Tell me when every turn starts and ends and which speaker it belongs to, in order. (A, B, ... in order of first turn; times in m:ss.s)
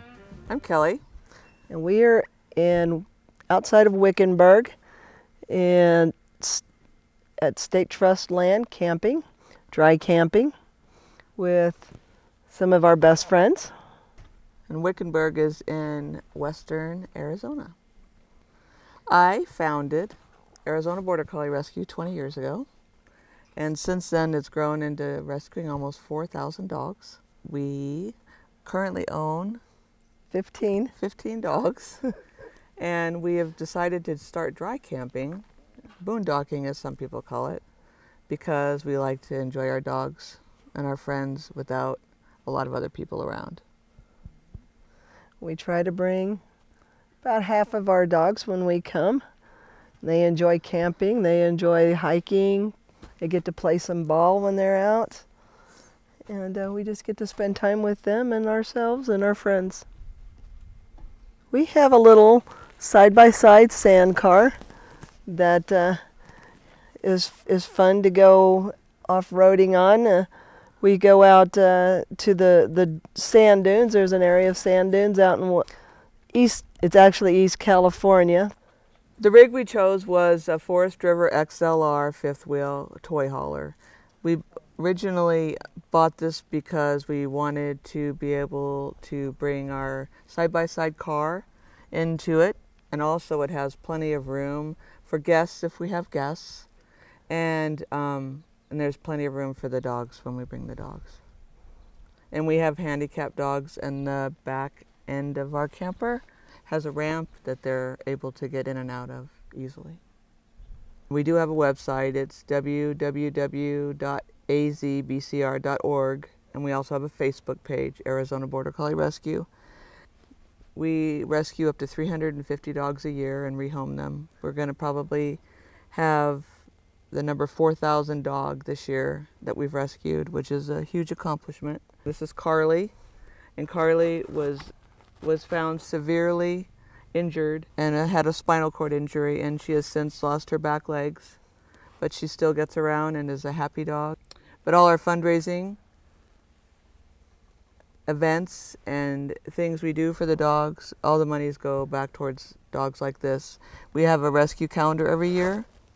0:00.5-0:01.0 A
0:01.7-0:04.7 B
0:05.5-0:06.6 B
0:07.4-0:10.5 B
0:11.4-0:11.9 B
0:12.5-0:13.7 B
0:14.7-0:17.7 A
0:19.1-0:22.7 A
0:23.6-0:29.6 A
0:30.3-0:30.9 B
0:31.0-0:32.0 A
0:32.8-0:35.4 A
0:36.0-0:37.6 A
0:38.3-0:43.6 A
0:45.4-0:46.4 B
0:47.2-0:49.2 B
0:50.0-0:55.2 B
0:56.3-0:59.8 B
1:01.5-1:04.6 B
1:05.3-1:06.0 B
1:07.0-1:10.3 B
1:10.8-1:15.7 B
1:16.3-1:18.5 B
1:19.2-1:36.7 A
1:37.3-1:41.2 A
1:42.3-1:50.0 A
1:51.1-1:59.5 A
2:00.7-2:12.9 A
2:13.6-2:21.4 A
2:22.0-2:25.8 A
2:28.0-2:35.7 A